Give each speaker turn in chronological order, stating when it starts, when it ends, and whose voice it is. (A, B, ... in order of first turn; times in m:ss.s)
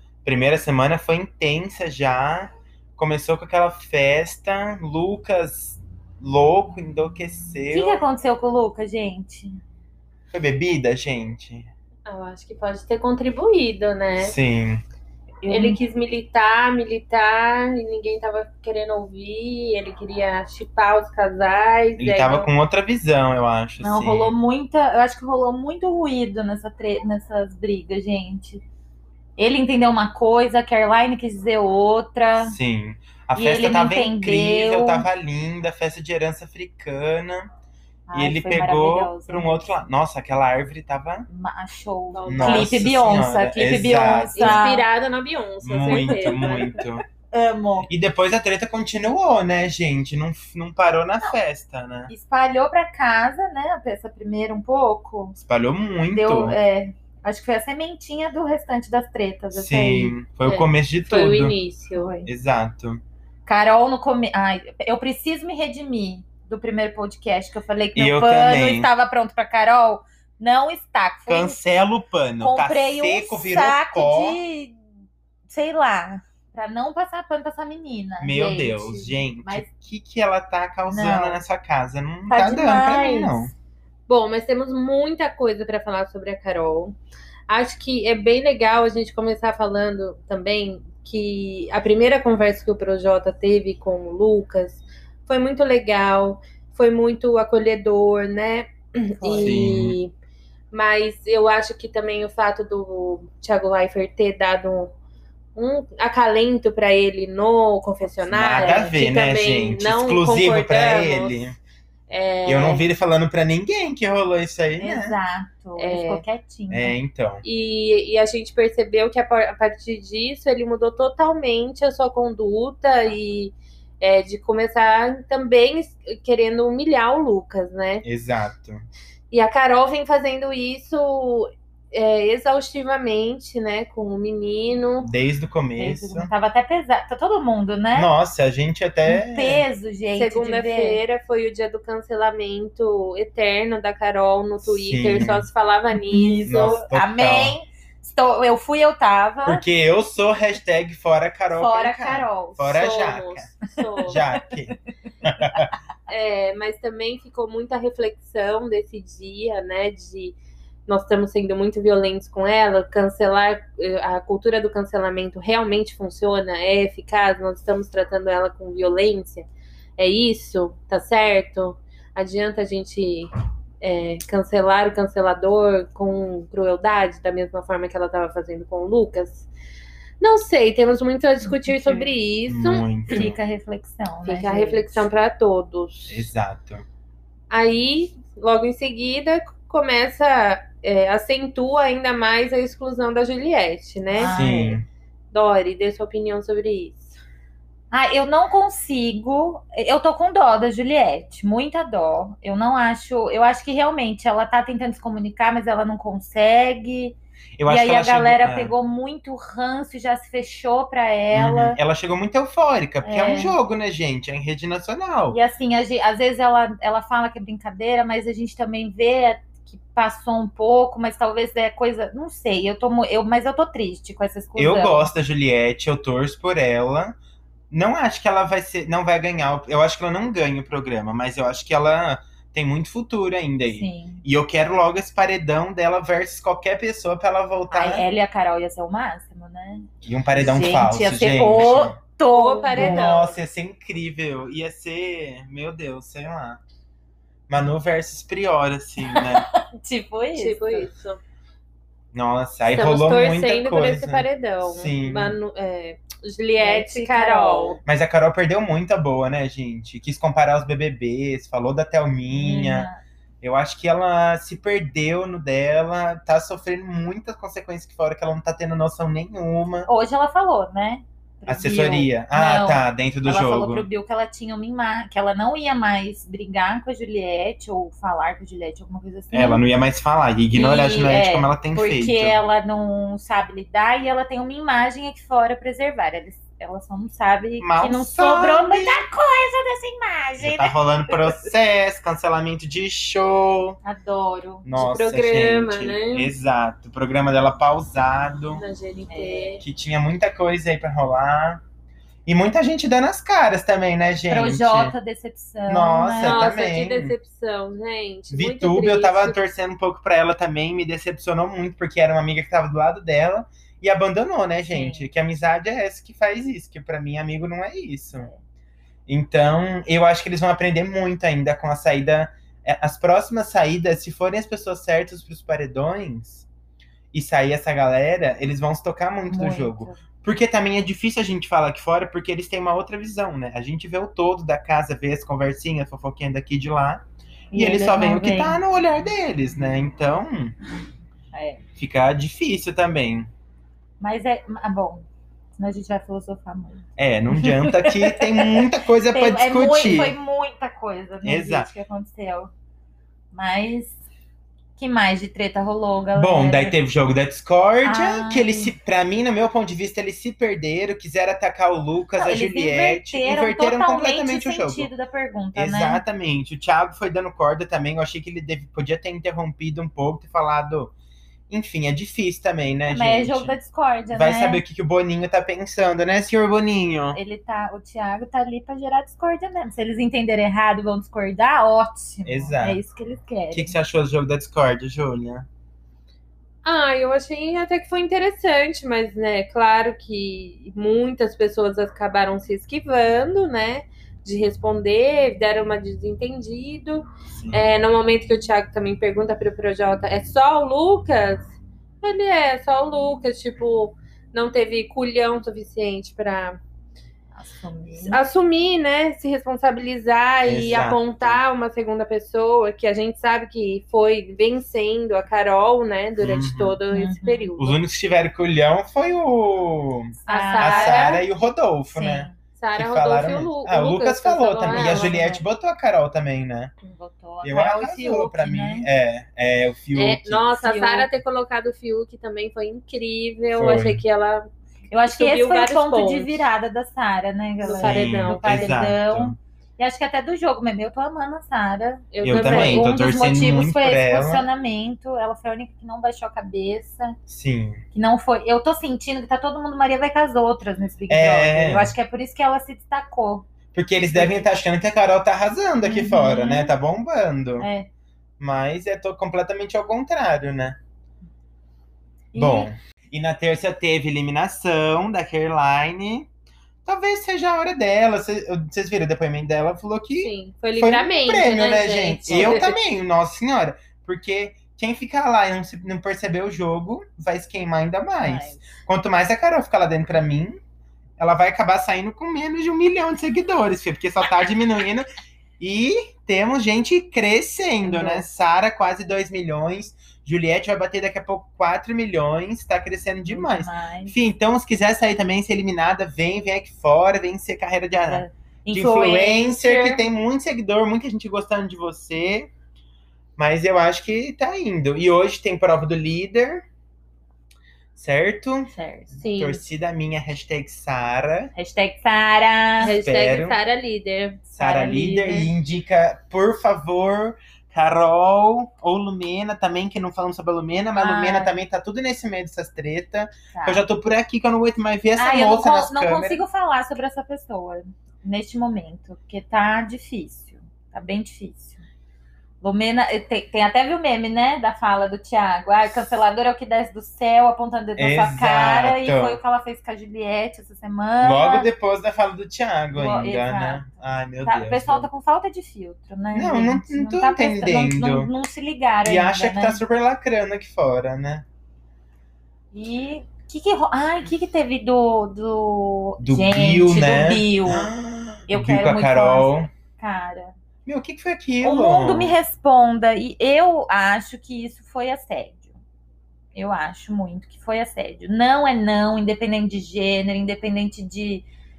0:00.2-0:08.0 A
0:07.7-0:09.6 B
0:10.3-0:11.7 A
0:12.1-0:14.3 C
0:14.2-0:14.8 A
0:15.4-0:15.8 B
0:15.5-0:22.5 C
0:22.0-0:24.3 A
0:23.8-0:28.6 B
0:29.4-0:32.6 B
0:32.4-0:37.5 A
0:33.3-0:35.0 B
0:38.1-0:39.7 B
0:38.1-0:41.3 A
0:41.3-0:44.8 B
0:42.1-0:42.8 C
0:42.3-0:44.6 A
0:44.4-0:46.8 C
0:45.6-0:47.0 A
0:45.9-0:47.9 B
0:47.9-0:52.1 A
0:52.1-0:55.4 B
0:55.4-0:56.6 A
0:56.1-1:00.1 B
0:59.5-1:01.6 A
1:00.4-1:02.1 C
1:01.9-1:02.3 B
1:02.2-1:03.0 A
1:03.4-1:11.6 B
1:08.0-1:08.9 A
1:11.3-1:14.4 A
1:12.4-1:14.8 B
1:15.5-1:19.7 B
1:18.2-1:23.5 A
1:20.9-1:21.4 B
1:22.3-1:23.4 B
1:24.1-1:27.0 C
1:27.5-1:40.1 C
1:39.2-1:39.7 B
1:39.4-1:40.0 A
1:40.7-1:44.9 C
1:45.6-1:51.5 C
1:48.2-1:51.6 A
1:48.6-1:48.9 B
1:52.1-1:52.9 C
1:52.4-1:55.2 A
1:54.8-1:56.9 B
1:55.8-1:56.2 C
1:56.7-1:57.4 A
1:57.4-2:08.0 C
2:08.0-2:08.9 A
2:09.3-2:15.1 C
2:15.0-2:16.3 A
2:15.8-2:18.1 B
2:17.9-2:19.6 A
2:19.0-2:21.0 B
2:20.1-2:26.8 C
2:24.6-2:25.5 A
2:26.0-2:29.6 B
2:26.4-2:27.6 A
2:29.4-2:33.5 A
2:31.5-2:32.7 B
2:32.7-2:34.2 C
2:34.0-2:35.7 A
2:34.1-2:34.4 B
2:36.1-2:53.3 C
2:53.8-2:59.5 C
3:00.2-3:03.3 C
3:01.4-3:02.1 B
3:02.5-3:03.4 A
3:03.1-3:05.0 B
3:04.2-3:06.3 C
3:06.1-3:06.8 A
3:07.5-3:14.4 C
3:14.1-3:14.8 B
3:14.2-3:14.9 A
3:15.3-3:17.2 C
3:17.9-3:31.8 B
3:27.6-3:28.7 A
3:31.3-3:35.4 A
3:33.0-3:33.6 B
3:35.3-3:45.1 B
3:44.6-3:47.2 A
3:47.7-3:58.0 A
3:53.7-3:54.2 B
3:57.7-4:03.0 B
4:00.0-4:02.0 A
4:02.3-4:03.4 C
4:02.7-4:06.6 A
4:07.5-4:09.5 A
4:09.8-4:10.9 B
4:10.3-4:11.2 C
4:12.1-4:15.4 A
4:12.6-4:17.8 C
4:16.6-4:17.8 B
4:17.8-4:22.9 A
4:22.3-4:23.0 B
4:23.4-4:29.9 A
4:29.9-4:39.6 B
4:31.4-4:33.9 A
4:39.3-4:42.4 A
4:40.5-4:51.5 B
4:47.6-4:49.0 A
4:50.4-4:53.8 A
4:53.8-4:54.6 B
4:54.6-4:58.6 A
4:54.8-4:56.3 C
4:58.5-4:59.6 C
4:59.1-4:59.6 B
4:59.6-5:01.6 A
5:02.2-5:04.9 A
5:04.3-5:06.5 B
5:05.7-5:07.2 A
5:06.2-5:09.3 C
5:08.3-5:18.3 A
5:14.7-5:15.1 B
5:18.1-5:18.4 B
5:19.1-5:26.5 A
5:27.1-5:37.0 A
5:29.3-5:30.0 B
5:37.5-5:38.6 B
5:37.5-5:40.5 A
5:41.3-5:41.6 B
5:41.8-5:43.3 A
5:44.0-5:45.0 B
5:45.6-5:52.5 B
5:47.0-5:50.2 A
5:51.2-5:51.7 A
5:53.3-5:54.0 B
5:54.8-5:56.7 B
5:56.1-6:04.9 A
5:57.8-5:58.7 B
6:02.2-6:06.0 B
6:05.6-6:10.9 A
6:11.5-6:13.6 A
6:12.9-6:14.6 B
6:14.1-6:17.2 A
6:17.1-6:23.8 B
6:22.2-6:22.8 A
6:23.5-6:25.4 A
6:26.6-6:46.6 C
6:37.3-6:37.6 A
6:47.3-6:48.2 B
6:48.0-6:57.8 C
6:50.4-6:51.4 A
6:56.2-6:56.8 A
6:56.9-6:57.5 B
6:57.6-7:06.7 A
7:00.2-7:01.2 B
7:00.3-7:01.2 C
7:01.9-7:02.4 B
7:02.5-7:05.2 C
7:04.6-7:05.4 B
7:06.8-7:08.9 B
7:07.4-7:10.4 A
7:10.0-7:14.4 C
7:10.5-7:11.1 B
7:13.6-7:14.0 A
7:14.9-7:27.1 B
7:15.0-7:16.5 C
7:17.6-7:18.6 C
7:17.6-7:19.4 A
7:22.1-7:22.9 C
7:22.2-7:24.5 A
7:27.3-7:27.8 A
7:27.9-7:33.5 B
7:31.1-7:32.0 A
7:33.7-7:37.7 A
7:34.1-7:34.5 B
7:35.8-7:36.7 B
7:37.6-7:37.9 B
7:38.4-7:40.8 A
7:42.3-7:42.7 B
7:42.3-7:46.3 A
7:46.8-8:00.6 A
7:50.2-7:52.8 C
7:52.2-7:52.8 B
7:58.2-7:58.6 B
8:01.2-8:05.0 A
8:05.6-8:22.5 A
8:07.8-8:08.3 B
8:13.3-8:14.2 B
8:18.0-8:20.0 B
8:23.4-8:26.6 A
8:28.0-8:31.5 A
8:28.7-8:29.2 B
8:29.2-8:29.6 C
8:31.6-8:33.0 B
8:32.8-8:34.4 C
8:33.0-8:33.6 A
8:34.4-8:35.5 B
8:34.5-8:46.4 A
8:41.0-8:41.5 B
8:43.5-8:43.8 B
8:45.2-8:51.8 B
8:52.6-9:01.7 B
8:58.0-8:59.4 A
9:01.2-9:05.1 A
9:02.9-9:09.8 B
9:06.3-9:08.3 A
9:09.0-9:11.4 A
9:12.7-9:17.9 B
9:16.2-9:19.7 A
9:18.5-9:20.5 B
9:20.8-9:22.4 A
9:21.6-9:25.7 B
9:26.5-9:31.4 B